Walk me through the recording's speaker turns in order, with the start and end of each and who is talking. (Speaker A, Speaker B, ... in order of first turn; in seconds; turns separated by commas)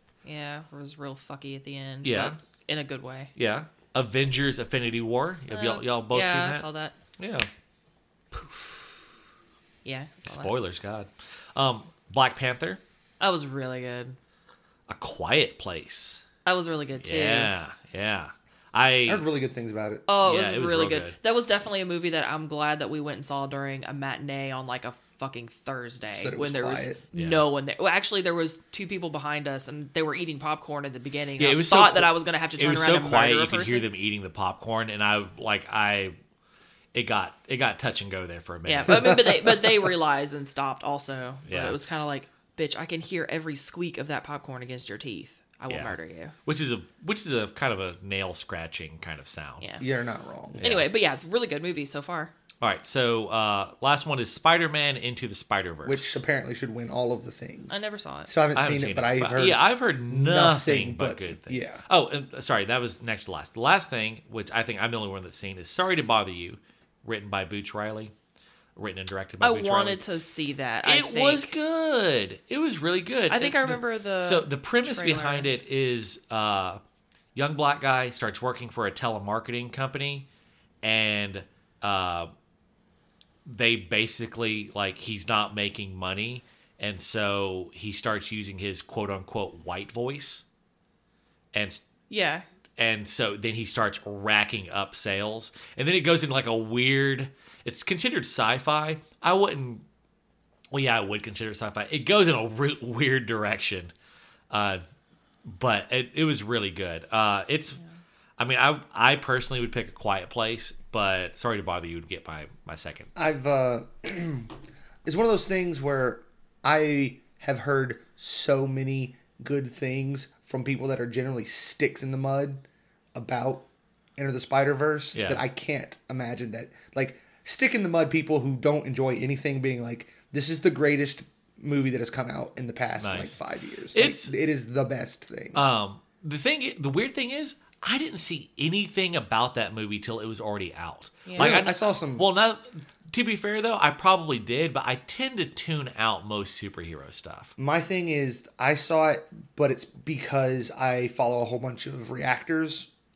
Speaker A: 0.2-3.3, Speaker B: 2.0-2.4, Speaker B: 3.4-6.7, Speaker A: 5.5-7.0, Speaker B: 7.2-7.5, Speaker A: 8.3-9.0, Speaker A: 9.8-10.5, Speaker B: 10.3-12.8, Speaker A: 13.2-14.2, Speaker B: 14.9-16.2, Speaker A: 16.4-17.5, Speaker B: 17.0-19.2, Speaker C: 19.1-20.1, Speaker A: 20.1-33.9, Speaker B: 20.2-21.2, Speaker C: 26.2-27.0, Speaker B: 27.1-27.4, Speaker B: 31.4-36.2, Speaker B: 36.9-39.2, Speaker A: 38.7-46.4, Speaker C: 38.9-39.8, Speaker B: 41.5-41.8, Speaker B: 45.7-49.7, Speaker C: 49.8-50.6, Speaker B: 50.6-50.9, Speaker A: 50.6-52.3, Speaker B: 52.6-56.2, Speaker C: 55.9-61.8, Speaker A: 57.7-58.3, Speaker B: 58.5-68.1, Speaker B: 68.8-70.0, Speaker A: 69.4-71.5, Speaker B: 70.8-76.8, Speaker A: 73.3-75.5, Speaker B: 77.3-80.3, Speaker B: 80.8-82.3, Speaker B: 83.5-90.4, Speaker B: 91.5-91.8, Speaker A: 92.1-92.5, Speaker B: 92.8-99.8, Speaker B: 100.7-103.9, Speaker B: 104.5-104.8, Speaker B: 105.5-107.8, Speaker B: 108.4-113.1, Speaker C: 113.2-114.5, Speaker C: 115.0-135.6, Speaker B: 125.2-125.4, Speaker B: 133.0-133.4, Speaker B: 133.9-134.3, Speaker B: 135.6-147.5, Speaker A: 141.3-141.6, Speaker C: 141.4-142.3, Speaker C: 147.6-152.9